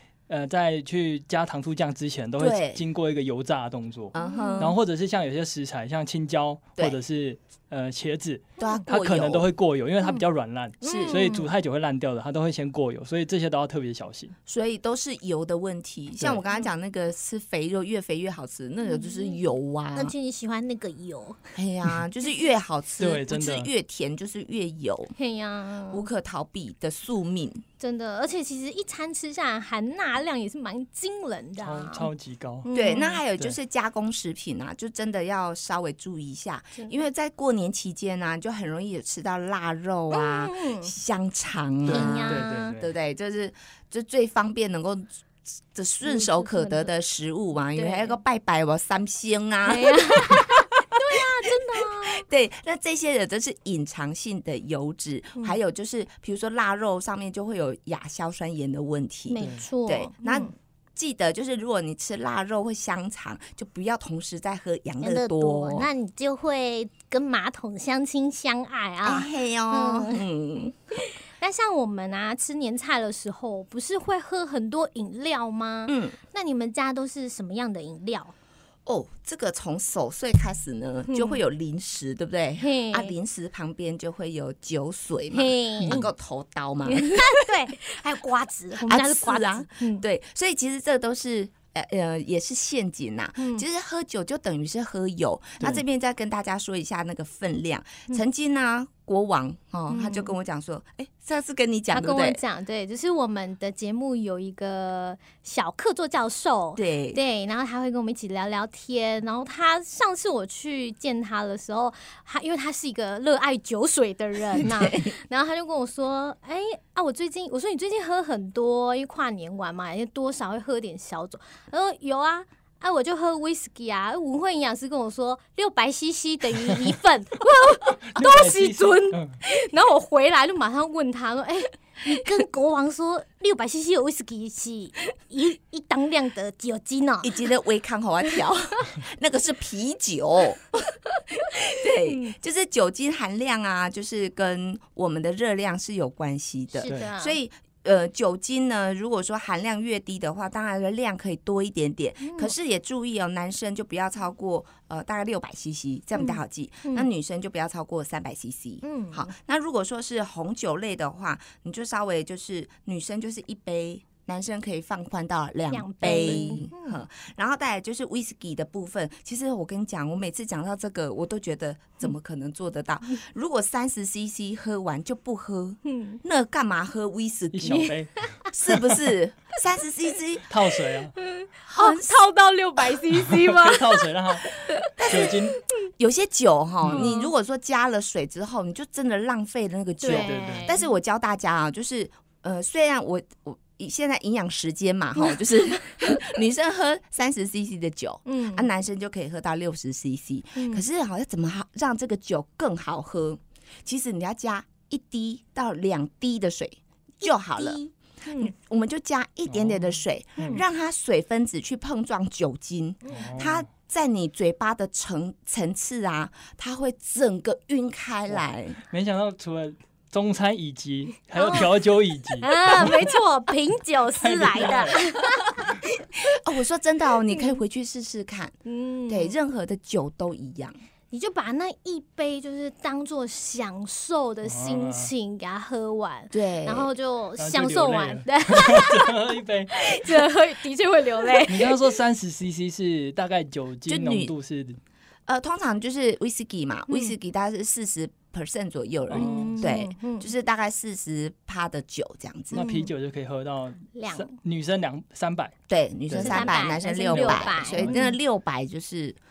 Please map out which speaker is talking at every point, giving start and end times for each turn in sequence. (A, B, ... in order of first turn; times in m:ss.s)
0:00.3-0:14.3 A
0:02.4-0:02.8 B
0:04.1-0:04.8 B
0:04.2-0:04.7 C
0:08.6-0:09.5 B
0:10.8-0:11.3 B
0:10.8-0:11.5 C
0:14.5-0:20.1 B
0:18.8-0:21.5 C
0:21.5-0:25.1 B
0:23.0-0:23.7 A
0:25.2-0:26.0 C
0:25.9-0:27.6 B
0:27.8-0:32.1 C
0:31.6-0:32.7 A
0:32.6-0:33.2 C
0:32.7-1:05.9 B
0:40.1-0:40.9 C
0:41.8-0:42.9 A
0:41.9-0:42.8 C
0:46.0-0:46.9 C
0:47.8-0:48.2 C
0:49.6-0:52.2 C
0:59.3-1:00.5 C
1:05.0-1:10.2 C
1:09.0-1:10.8 B
1:11.0-1:18.3 C
1:15.9-1:16.2 B
1:18.8-1:27.5 B
1:21.1-1:21.4 C
1:22.6-1:23.1 C
1:25.3-1:26.0 C
1:26.8-1:30.0 C
1:28.7-1:42.4 B
1:33.4-1:33.6 C
1:39.9-1:40.3 C
1:41.9-2:17.5 C
1:46.8-1:47.2 B
1:54.6-1:55.1 B
2:08.0-2:09.4 A
2:17.2-2:57.9 B
2:22.0-2:22.3 C
2:26.7-2:27.4 C
2:32.2-2:32.5 C
2:36.1-2:37.1 C
2:38.8-2:39.3 C
2:45.7-2:47.0 C
2:55.8-2:56.2 C
2:57.5-2:58.9 A
2:57.7-2:58.5 C
2:58.5-3:00.5 B
3:00.5-3:01.1 A
3:01.2-3:05.6 C
3:01.7-3:02.1 B
3:03.2-3:04.4 A
3:05.0-3:05.4 B
3:05.0-3:05.6 A
3:06.0-3:38.8 B
3:06.9-3:07.3 C
3:10.0-3:10.9 C
3:10.0-3:10.7 A
3:18.2-3:18.7 C
3:20.6-3:20.8 C
3:27.2-3:28.5 C
3:29.5-3:30.6 A
3:33.0-3:33.5 C
3:33.1-3:33.6 A
3:38.3-3:43.1 A
3:41.4-3:41.8 C
3:42.4-3:45.7 C
3:44.2-3:45.0 A
3:44.3-3:45.0 B
3:46.2-3:48.5 B
3:47.3-3:47.6 C
3:48.6-3:49.3 C
3:49.1-3:50.8 B
3:51.1-4:01.8 C
3:54.4-3:55.1 A
3:56.3-3:56.9 B
3:57.4-4:00.2 A
4:01.4-4:04.8 A
4:03.9-4:04.3 B
4:05.3-4:12.6 B
4:06.9-4:07.1 C
4:09.1-4:09.6 A
4:09.1-4:10.3 C
4:12.5-4:15.5 A
4:12.5-4:12.9 C
4:13.9-4:14.3 C
4:15.7-4:19.2 B
4:16.1-4:18.0 A
4:16.2-4:18.2 C